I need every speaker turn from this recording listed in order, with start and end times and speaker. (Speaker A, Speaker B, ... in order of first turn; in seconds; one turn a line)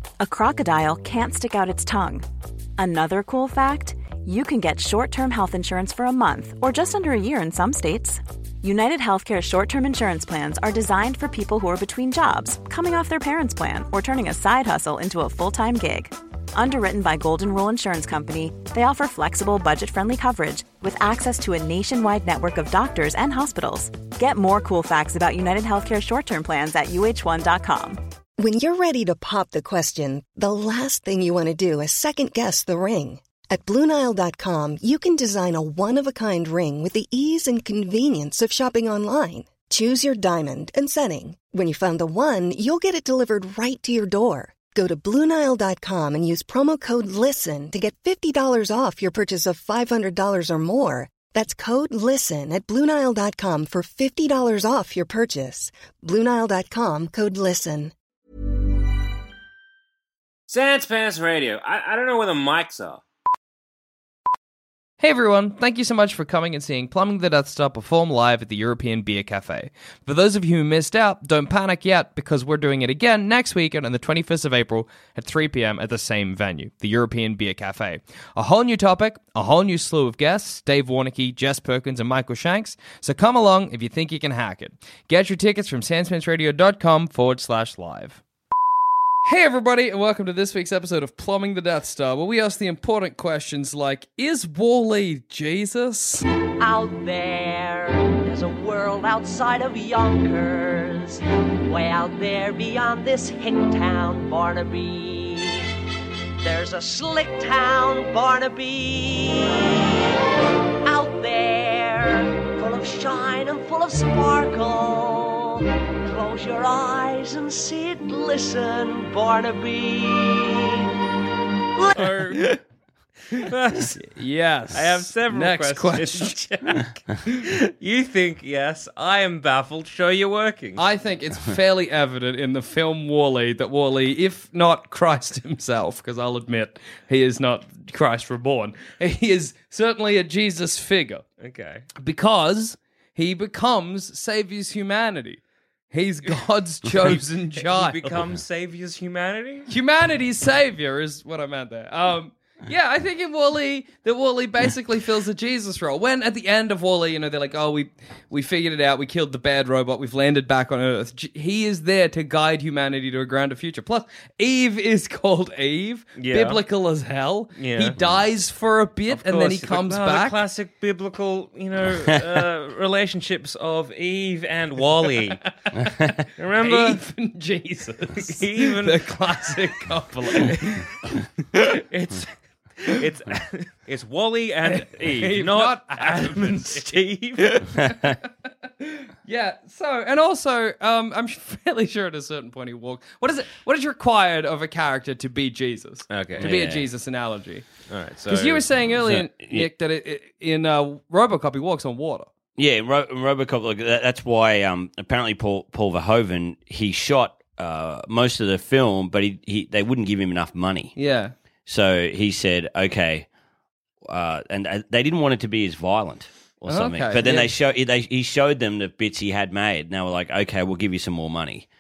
Speaker A: 0.2-2.2
Speaker A: 2.8-28.0
Speaker B: 28.4-57.9
Speaker C: 60.5-63.0
Speaker D: 65.0-88.2
Speaker D: 89.2-96.2
Speaker E: 96.6-105.7
Speaker E: 106.4-110.2
Speaker E: 110.8-120.9
Speaker C: 121.9-122.5
Speaker D: 122.3-122.6
Speaker C: 123.3-124.0
Speaker D: 123.3-126.4
Speaker C: 124.7-130.8
Speaker D: 130.8-141.2
Speaker C: 141.4-141.8
Speaker D: 142.0-148.1
Speaker C: 147.0-149.7
Speaker D: 149.7-170.4
Speaker C: 166.2-166.6
Speaker C: 167.6-168.0
Speaker C: 169.1-175.5
Speaker F: 175.8-176.1
Speaker C: 176.4-177.0
Speaker D: 176.6-180.9
Speaker C: 178.2-179.6
Speaker C: 180.4-180.7
Speaker C: 181.6-187.7
Speaker D: 184.7-197.7
Speaker C: 196.1-196.9
Speaker F: 196.4-196.8
Speaker C: 197.9-198.7
Speaker D: 198.3-202.3
Speaker F: 199.0-199.7
Speaker F: 202.6-210.9
Speaker D: 211.0-211.3
Speaker F: 211.7-213.3
Speaker F: 214.0-221.7
Speaker D: 216.7-217.5